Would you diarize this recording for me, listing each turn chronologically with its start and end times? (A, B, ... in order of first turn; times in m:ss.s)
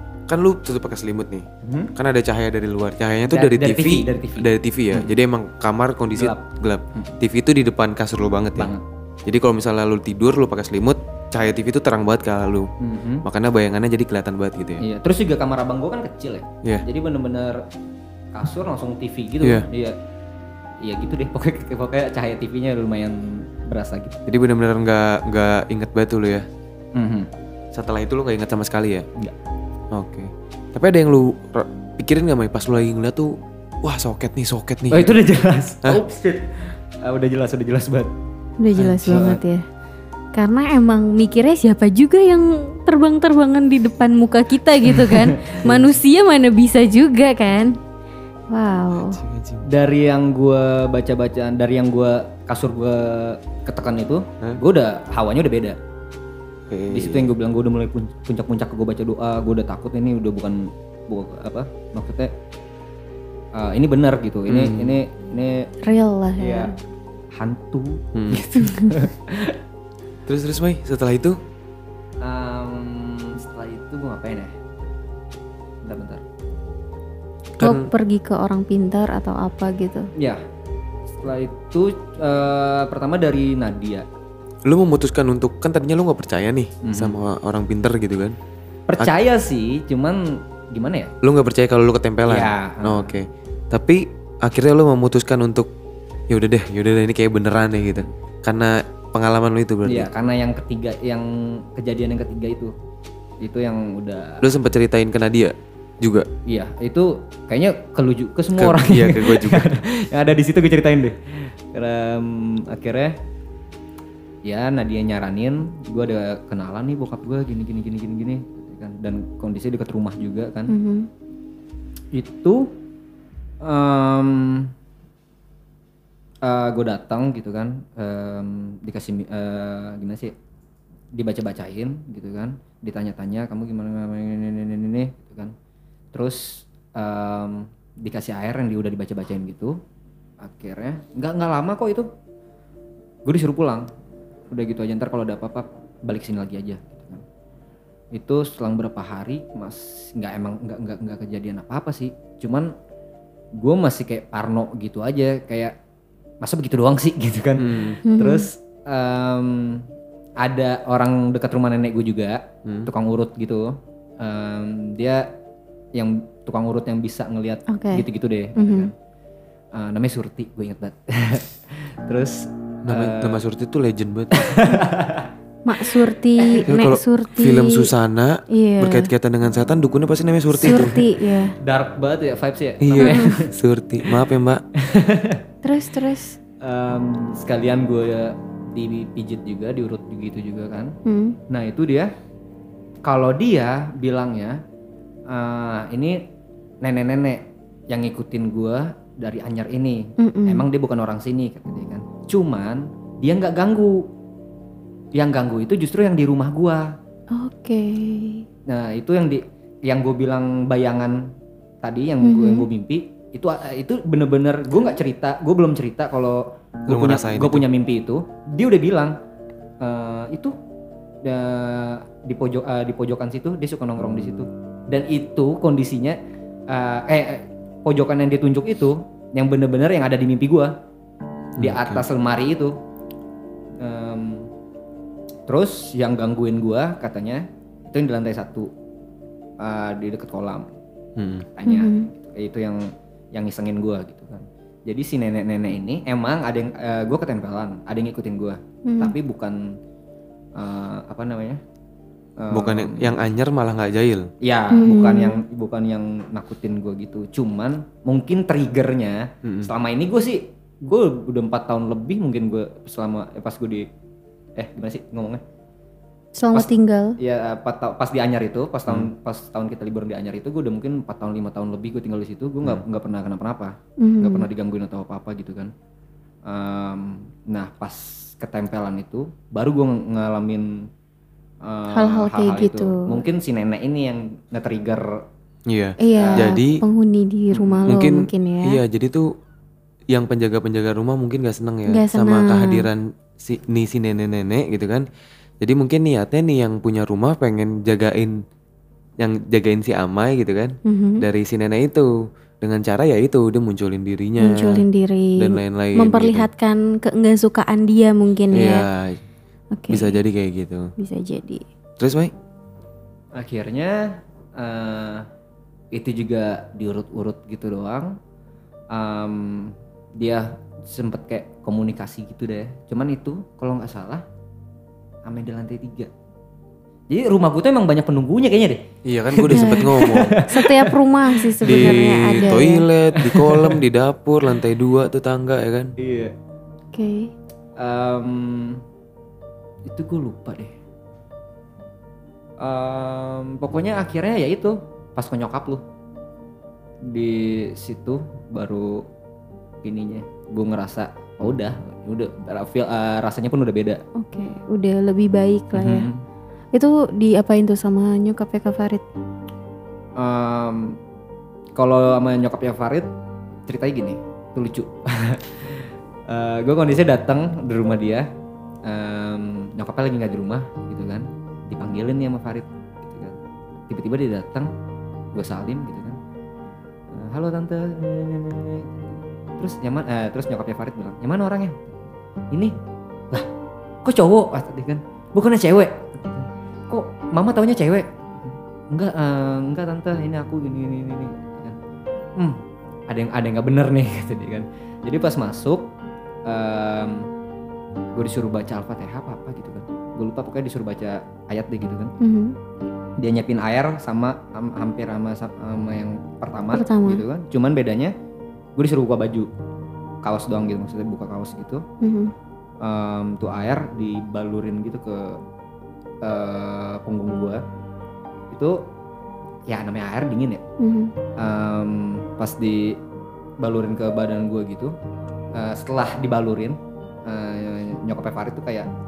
0:00.3-0:08.7 A
0:01.6-0:01.9 B
0:03.3-0:05.1 B
0:06.1-0:07.1 B
0:08.6-0:08.8 B
0:09.2-0:12.7 A
0:12.8-0:13.2 B
0:13.2-0:14.8 A
0:14.8-0:17.6 B
0:18.3-0:20.0 B
0:19.4-0:19.7 A
0:20.8-0:24.2 B
0:24.3-0:26.5 A
0:26.9-0:27.3 B
0:27.7-0:29.1 A
0:29.9-0:35.2 A
0:34.9-0:38.1 B
0:38.6-0:39.6 C
0:38.8-0:39.0 A
0:39.0-0:39.4 B
0:40.3-0:47.8 C
0:45.0-0:45.6 B
0:48.5-0:49.2 C
0:48.9-0:49.6 A
0:49.6-0:55.8 B
0:56.7-0:57.3 A
0:56.9-1:02.3 B
1:03.5-1:05.7 B
1:04.5-1:05.0 A
1:05.8-1:06.7 C
1:06.4-1:06.7 B
1:07.4-1:09.6 B
1:08.1-1:08.4 A
1:08.6-1:08.9 C
1:10.2-1:11.4 A
1:12.2-1:14.5 B
1:15.8-1:16.2 B
1:17.6-1:17.9 A
1:17.6-1:20.1 C
1:20.2-1:20.4 B
1:21.2-1:24.0 B
1:24.6-1:28.4 A
1:26.8-1:27.2 B
1:28.9-1:31.1 B
1:31.2-1:35.7 A
1:32.2-1:33.1 B
1:36.3-1:40.1 A
1:39.8-1:42.7 B
1:43.4-1:44.4 B
1:44.4-1:46.3 A
1:46.4-1:53.2 B
1:48.6-1:49.8 A
1:54.4-2:00.7 B
2:00.7-2:01.1 C
2:02.1-2:02.7 B
2:03.6-2:04.7 B
2:06.4-2:10.3 B
2:11.1-2:15.5 B
2:16.1-2:19.8 B
2:20.4-2:22.1 B
2:23.2-2:23.9 B
2:24.5-2:27.2 B
2:28.1-2:32.7 B
2:33.6-2:35.7 B
2:36.4-2:39.8 B
2:37.6-2:38.0 A
2:38.0-2:38.5 C
2:40.4-2:45.3 B
2:42.6-2:42.9 A
2:45.9-2:48.9 B
2:47.7-2:48.0 C
2:48.6-2:48.9 C
2:49.7-2:53.4 B
2:52.8-2:54.5 A
2:54.3-2:55.3 B
2:55.6-2:57.9 C
2:56.4-2:56.7 B
2:56.7-3:01.0 A
2:58.5-2:59.1 C
3:00.5-3:01.6 C
3:00.6-3:01.0 B
3:01.6-3:03.5 B
3:02.8-3:04.6 A
3:03.0-3:03.3 C
3:04.8-3:05.4 B
3:05.6-3:06.4 C
3:06.6-3:11.0 B
3:11.0-3:11.4 C
3:11.5-3:12.1 B
3:13.0-3:14.6 B
3:15.3-3:16.3 B
3:16.8-3:24.1 B
3:20.2-3:20.6 C
3:25.1-3:26.9 B
3:27.3-3:28.4 C
3:28.7-3:31.3 B
3:31.8-3:39.2 B
3:32.2-3:32.6 C
3:36.9-3:37.6 A
3:39.8-3:40.5 B
3:41.2-3:50.7 B
3:51.6-3:52.0 A
3:51.6-3:52.8 B
3:53.8-3:54.5 B
3:55.5-3:58.7 B
3:59.6-4:00.7 B
4:01.2-4:01.4 A
4:01.5-4:09.8 B
4:01.7-4:02.1 C
4:08.8-4:09.1 C
4:10.6-4:11.6 B
4:12.4-4:13.2 B
4:12.5-4:14.3 A
4:14.4-4:23.9 B
4:14.7-4:15.4 C
4:19.4-4:19.7 A
4:24.6-4:25.4 B
4:26.4-4:27.2 C
4:26.5-4:35.7 B
4:34.0-4:34.5 C
4:36.4-4:40.9 B
4:41.6-4:45.2 B
4:41.9-4:43.2 C
4:45.7-4:46.8 A
4:46.0-4:48.8 C
4:46.2-4:46.5 B
4:47.5-4:47.9 B
4:47.9-4:49.3 A
4:50.1-4:55.1 A
4:51.9-4:52.9 C
4:55.6-4:58.4 A
4:59.2-5:04.8 A
5:00.8-5:01.2 C
5:04.4-5:08.9 C
5:05.4-5:06.5 A
5:08.5-5:09.2 A
5:09.7-5:10.2 C
5:09.9-5:10.9 A
5:11.0-5:11.6 C
5:12.0-5:12.3 A
5:13.3-5:15.3 B
5:15.9-5:18.2 B
5:18.9-5:24.2 B
5:25.2-5:26.1 B
5:27.1-5:31.0 B
5:29.0-5:30.4 A
5:29.5-5:32.8 C
5:31.5-5:32.3 B
5:31.6-5:35.9 A
5:33.1-5:33.8 B
5:36.0-5:36.3 B
5:36.9-5:37.3 C
5:37.8-5:38.8 B
5:39.8-5:40.7 B
5:42.6-5:45.8 B
5:47.0-5:49.0 B
5:49.8-5:54.0 B
5:54.2-5:56.1 C
5:55.7-5:56.2 B
5:56.7-5:59.0 C
6:00.2-6:01.0 B
6:01.8-6:03.1 B
6:03.7-6:08.3 B
6:08.8-6:13.4 B
6:13.9-6:14.7 B
6:15.3-6:16.2 B
6:17.1-6:19.0 B
6:19.6-6:22.7 B
6:24.0-6:31.8 B
6:32.4-6:35.9 B
6:36.4-6:37.2 B
6:38.1-6:42.1 B
6:42.2-6:42.6 C
6:43.2-6:48.1 B
6:46.7-6:47.2 C
6:48.8-6:49.5 B
6:50.2-6:51.8 B
6:52.0-6:52.3 C
6:52.8-6:55.4 B
6:56.2-6:57.6 B
6:58.5-6:58.8 B
6:59.7-7:00.6 B
7:00.8-7:01.1 C
7:01.4-7:03.0 B
7:03.6-7:04.9 B
7:05.5-7:08.9 B